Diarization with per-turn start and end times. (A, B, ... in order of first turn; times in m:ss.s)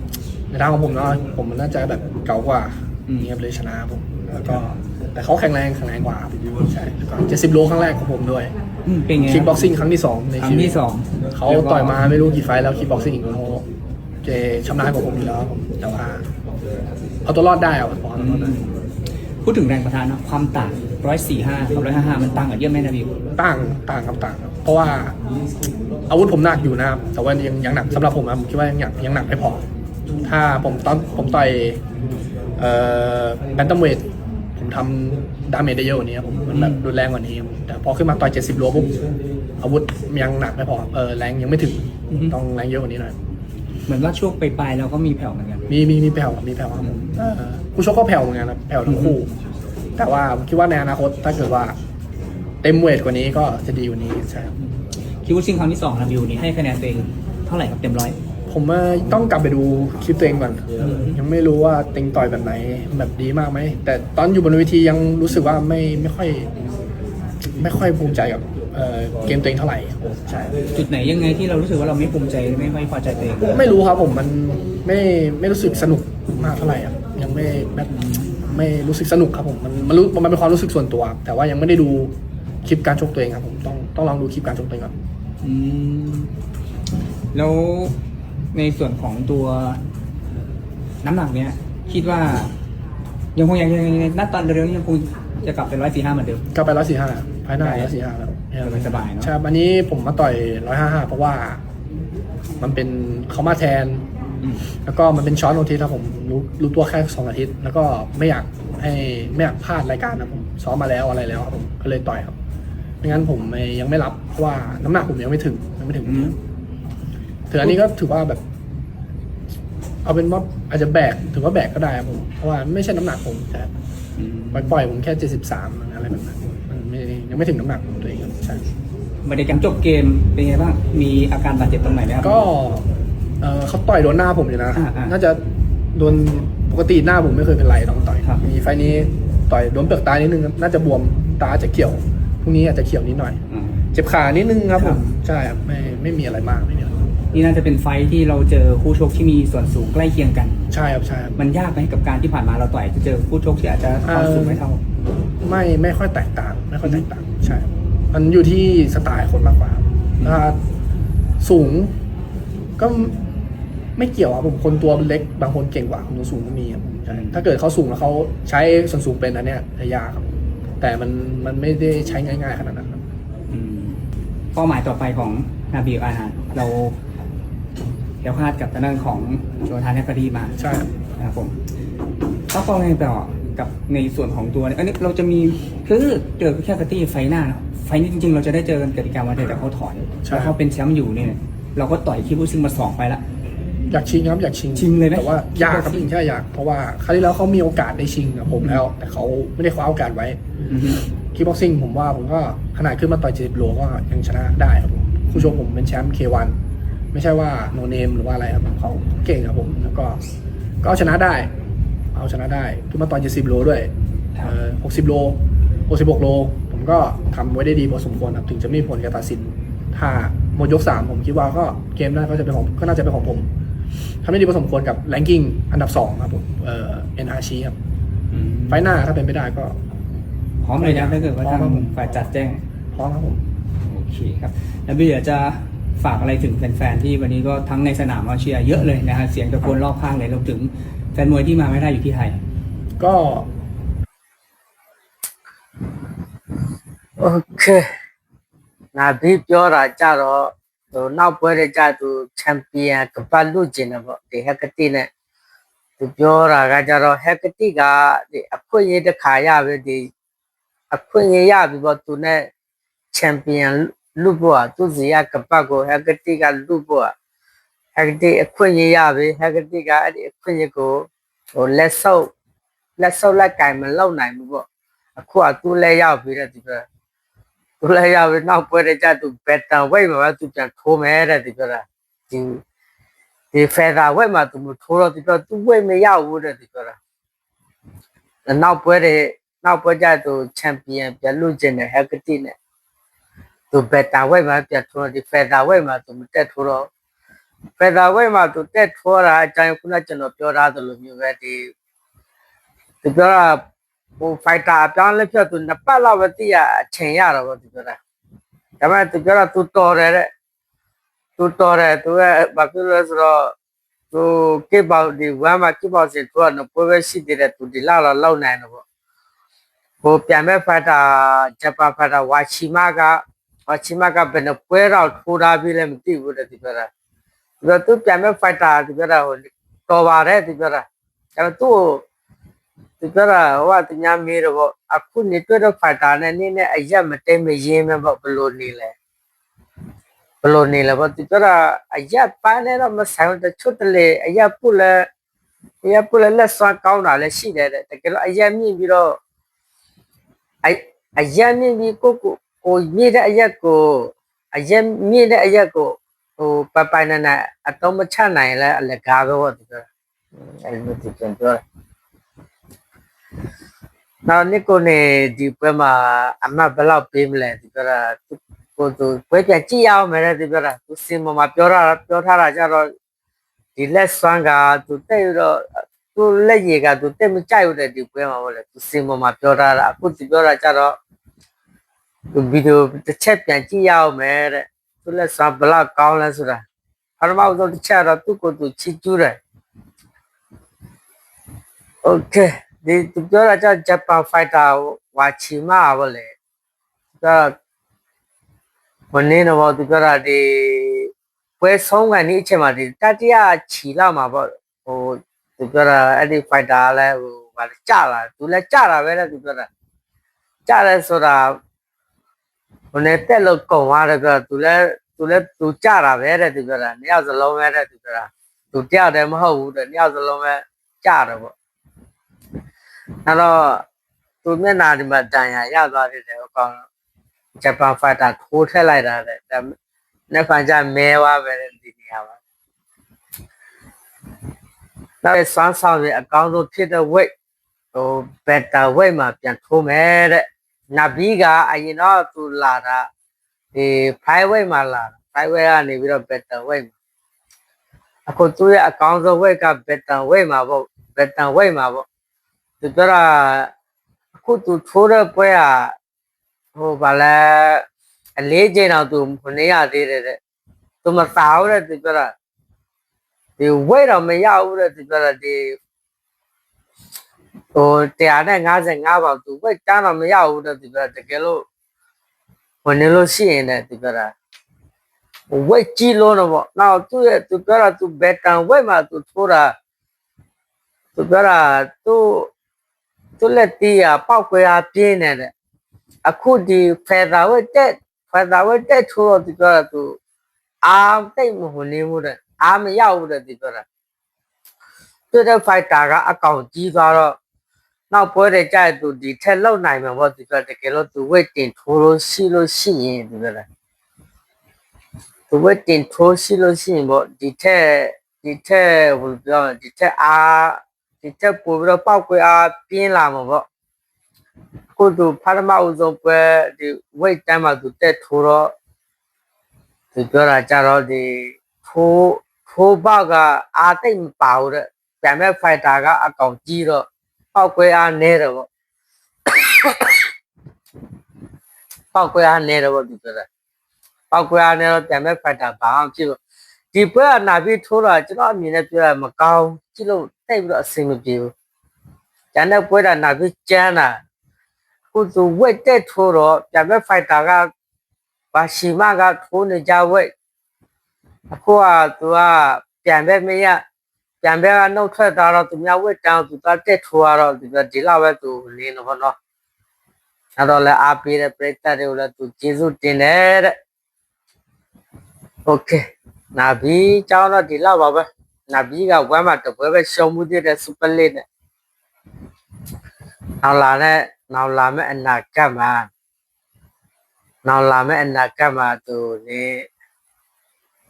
0:00.5-0:08.5 A
0:08.8-0:09.7 B
0:09.2-0:13.6 A
0:10.4-0:12.0 B
0:14.2-0:16.2 A
0:17.2-0:18.6 A
0:18.2-0:18.8 B
0:19.4-0:23.1 B
0:23.4-0:25.2 A
0:26.1-0:29.6 A
0:30.2-0:31.8 A
0:32.6-0:39.0 A
0:36.5-0:36.8 B
0:39.6-0:43.2 A
0:42.1-0:42.3 B
0:43.9-0:45.6 B
0:45.7-0:49.3 A
0:46.8-0:47.0 B
0:48.8-0:49.2 B
0:50.0-0:51.8 A
0:52.6-0:54.6 A
0:55.2-0:58.2 B
0:58.5-1:06.5 A
1:00.8-1:01.2 B
1:07.6-1:10.5 A
1:10.7-1:13.6 B
1:13.5-1:22.1 A
1:22.6-1:24.9 A
1:25.4-1:26.3 B
1:27.3-1:27.9 B
1:28.5-1:29.8 B
1:31.0-1:32.5 B
1:33.3-1:36.4 B
1:36.5-1:41.6 A
1:37.6-1:37.9 B
1:38.6-1:39.3 B
1:42.6-1:44.0 A
1:44.8-1:52.4 A
1:53.0-1:56.4 A
1:56.0-1:56.3 B
1:57.5-1:58.4 A
2:00.0-2:03.7 A
2:04.2-2:04.8 B
2:04.5-2:08.6 A
2:09.2-2:12.4 B
2:12.2-2:12.9 A
2:13.4-2:15.4 A
2:14.8-2:15.2 B
2:15.9-2:23.4 A
2:23.5-2:23.8 B
2:23.9-2:27.0 A
2:24.8-2:25.0 B
2:27.3-2:30.6 B
2:30.7-2:31.4 A
2:31.4-2:34.8 B
2:34.0-2:34.6 A
2:35.4-2:40.6 A
2:41.4-2:41.9 A
2:42.8-2:43.2 A
2:44.0-2:53.0 A
2:47.1-2:47.4 B
2:53.5-2:54.0 B
2:54.5-2:57.0 B
2:58.2-3:00.6 B
3:00.6-3:00.9 A
3:01.2-3:01.5 B
3:02.5-3:13.2 B
3:10.2-3:10.6 A
3:13.9-3:20.4 A
3:14.7-3:16.1 B
3:20.7-3:21.0 B
3:21.1-3:26.5 A
3:25.3-3:25.6 B
3:27.1-3:30.2 A
3:30.8-3:31.5 A
3:32.1-3:43.5 A
3:44.2-3:47.7 A
3:48.3-3:48.8 B
3:48.7-3:49.8 A
3:50.6-3:52.6 B
3:50.8-3:52.3 A
3:52.9-3:53.4 A
3:53.9-4:02.4 B
4:03.0-4:03.5 A
4:07.2-4:07.9 C
4:08.9-4:15.1 C
4:16.0-4:20.1 C
4:20.9-4:22.5 C
4:23.1-4:27.1 C
4:27.9-4:32.3 C
4:33.0-4:34.6 C
4:35.2-4:36.8 C
4:37.8-4:42.6 C
4:43.5-4:47.0 C
4:48.5-4:52.6 C
4:53.7-4:56.9 C
4:57.8-5:01.7 C
5:03.0-5:03.6 C
5:04.2-5:08.0 C
5:08.8-5:10.3 C
5:11.4-5:13.5 C
5:14.1-5:18.8 C
5:20.0-5:26.9 C
5:27.6-5:30.8 C
5:31.4-5:32.0 C
5:33.0-5:38.9 C
5:40.4-5:45.1 C
5:45.8-5:49.2 C
5:50.6-5:59.9 C
6:00.5-6:01.6 C
6:04.2-6:12.9 C
6:13.8-6:20.9 C
6:22.3-6:26.6 C
6:27.2-6:29.4 C
6:32.0-6:36.3 C
6:37.2-6:37.5 C
6:39.1-6:41.1 C
6:41.6-6:49.7 C
6:50.6-6:51.6 C
6:52.9-7:01.5 C
7:03.2-7:03.8 C
7:04.4-7:06.8 C
7:07.6-7:09.7 C
7:10.3-7:12.4 C
7:15.2-7:17.3 C
7:17.9-7:23.1 C
7:23.7-7:26.9 C
7:28.3-7:32.0 C
7:32.8-7:33.7 C
7:34.3-7:35.9 C
7:36.7-7:37.8 C
7:38.4-7:40.4 C
7:41.0-7:42.3 C
7:43.6-7:45.7 C
7:47.7-7:51.6 C
7:52.8-7:54.3 C
7:55.5-7:59.7 C
8:01.1-8:02.5 C
8:03.4-8:05.5 C
8:06.2-8:10.1 C
8:10.8-8:13.8 C
8:15.3-8:17.3 C
8:18.1-8:23.6 C
8:25.5-8:33.6 C
8:35.0-8:38.7 C
8:40.1-8:47.0 C
8:47.5-8:48.6 C
8:49.5-8:50.2 C
8:52.1-8:53.4 C
8:54.3-8:56.4 C
8:56.9-9:01.5 C
9:02.5-9:04.2 C
9:05.1-9:07.7 C
9:08.5-9:10.3 C
9:11.5-9:13.8 C
9:14.4-9:19.3 C
9:20.6-9:23.7 C
9:25.7-9:26.0 C
9:26.5-9:31.4 C
9:33.6-9:36.1 C
9:37.6-9:39.8 C